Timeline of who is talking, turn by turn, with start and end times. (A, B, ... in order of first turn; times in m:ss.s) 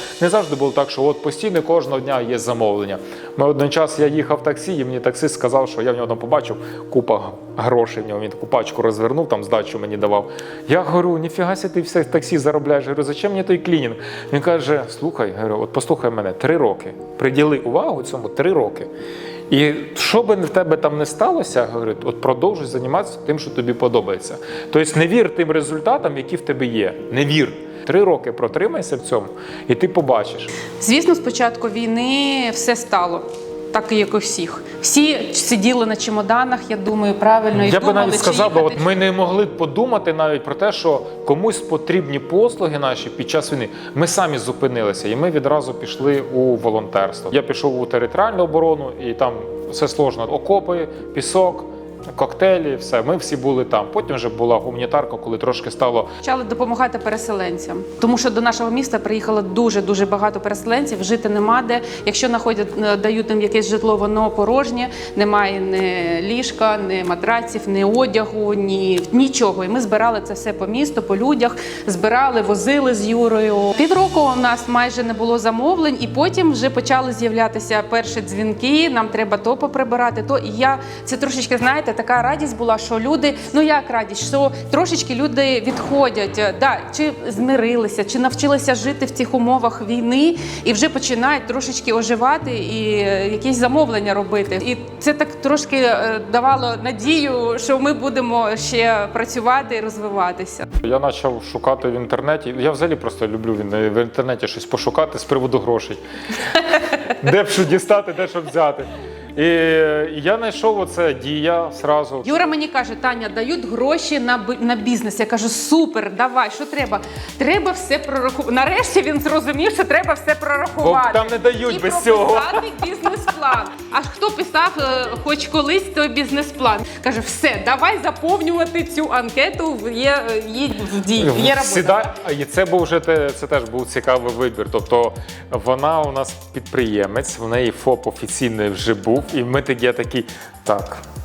0:00.2-0:18.9 A
0:19.5-0:30.5 A
0:30.8-0:38.8 B
0:37.5-0:56.1 A
0:56.2-1:40.6 B
1:40.8-1:46.0 A
1:46.6-1:52.5 A
1:52.2-2:12.0 B
2:00.8-2:02.7 A
2:11.1-2:21.0 A